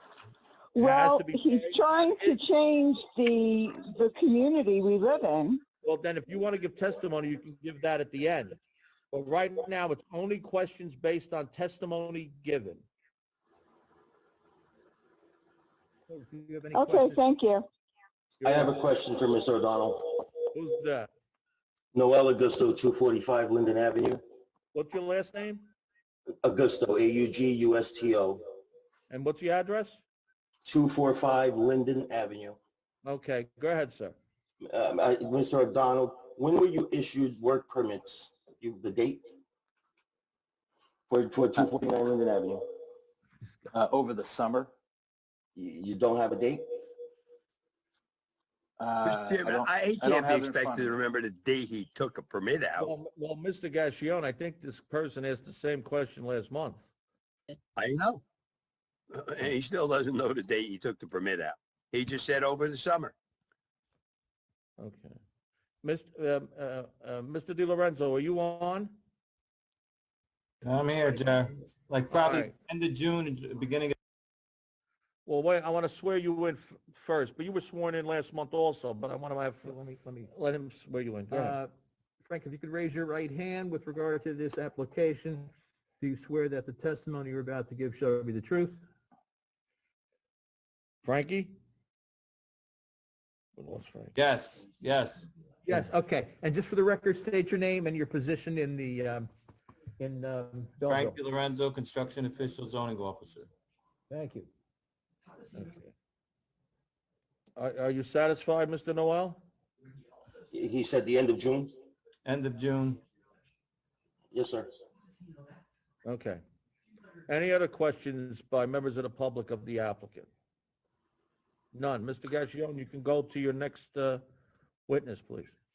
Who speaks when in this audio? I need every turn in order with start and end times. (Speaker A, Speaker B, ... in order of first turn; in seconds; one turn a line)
Speaker A: 0.8-2.4
Speaker B: 0.8-5.6
Speaker A: 5.8-8.6
Speaker A: 9.1-12.9
Speaker C: 16.1-17.3
Speaker B: 16.7-17.6
Speaker A: 18.4-18.8
Speaker D: 18.4-20.2
Speaker A: 20.5-21.1
Speaker D: 21.9-24.2
Speaker A: 24.7-25.7
Speaker D: 26.4-28.4
Speaker A: 29.1-30.0
Speaker D: 30.7-32.6
Speaker A: 33.0-34.2
Speaker D: 34.6-39.2
Speaker D: 41.1-42.6
Speaker E: 43.7-44.7
Speaker D: 45.6-46.6
Speaker E: 48.8-50.9
Speaker F: 49.0-52.9
Speaker A: 52.8-56.9
Speaker F: 57.8-58.2
Speaker F: 59.1-63.1
Speaker A: 64.8-65.2
Speaker A: 65.8-69.0
Speaker G: 70.6-74.0
Speaker A: 72.1-72.5
Speaker A: 75.3-81.6
Speaker C: 79.6-80.3
Speaker C: 81.3-81.7
Speaker C: 82.2-88.8
Speaker A: 91.0-91.6
Speaker A: 93.6-94.1
Speaker G: 94.2-95.3
Speaker C: 95.7-99.3
Speaker C: 100.0-101.2
Speaker G: 100.9-103.5
Speaker C: 104.1-104.5
Speaker A: 105.5-105.9
Speaker A: 107.6-109.4
Speaker D: 110.5-111.7
Speaker G: 112.2-113.0
Speaker D: 114.3-114.7
Speaker A: 116.0-116.4
Speaker A: 117.3-120.3
Speaker A: 121.7-124.2
Speaker A: 124.9-125.5